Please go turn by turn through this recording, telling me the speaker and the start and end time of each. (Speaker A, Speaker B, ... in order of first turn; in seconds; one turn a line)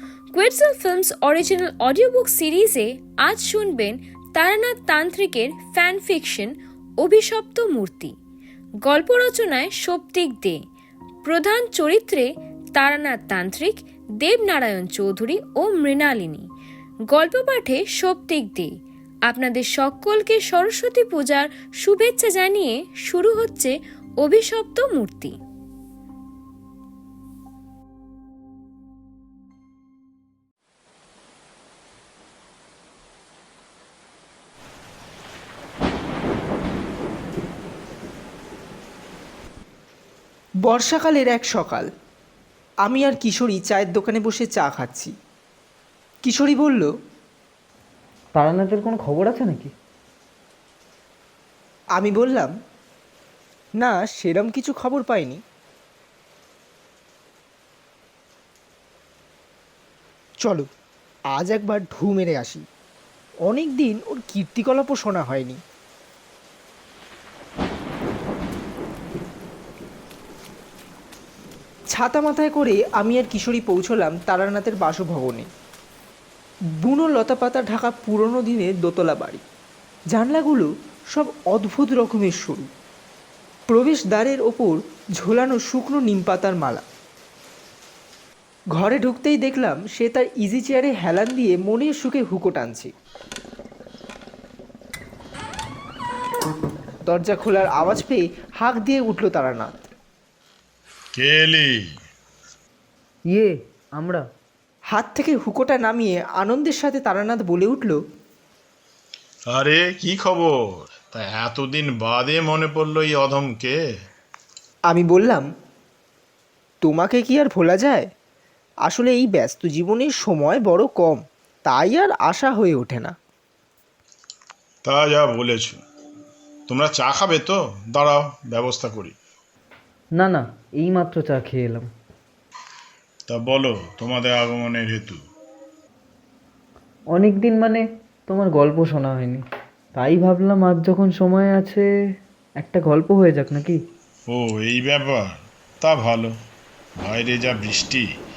Speaker A: 0.3-8.1
Speaker A: 8.8-10.6
Speaker A: 11.2-16.5
Speaker A: 17.1-18.7
Speaker A: 19.3-25.4
Speaker B: 40.6-41.9
Speaker B: 42.9-45.1
Speaker B: 46.2-46.9
Speaker C: 48.4-49.7
Speaker B: 52.0-52.5
Speaker B: 53.8-55.4
Speaker B: 61.4-62.6
Speaker B: 63.5-65.6
Speaker B: 72.0-75.5
Speaker B: 76.8-79.4
Speaker B: 80.1-82.7
Speaker B: 83.7-86.8
Speaker B: 88.8-92.9
Speaker B: 97.1-99.8
Speaker D: 101.2-101.9
Speaker C: 103.3-104.2
Speaker B: 104.9-108.0
Speaker D: 109.5-113.8
Speaker B: 114.9-115.5
Speaker B: 116.8-118.0
Speaker B: 118.9-123.1
Speaker D: 124.8-125.8
Speaker D: 126.7-129.2
Speaker C: 130.2-131.9
Speaker D: 133.3-135.2
Speaker C: 137.1-139.4
Speaker C: 140.0-141.9
Speaker C: 142.6-143.8
Speaker D: 144.3-146.3
Speaker D: 147.0-148.1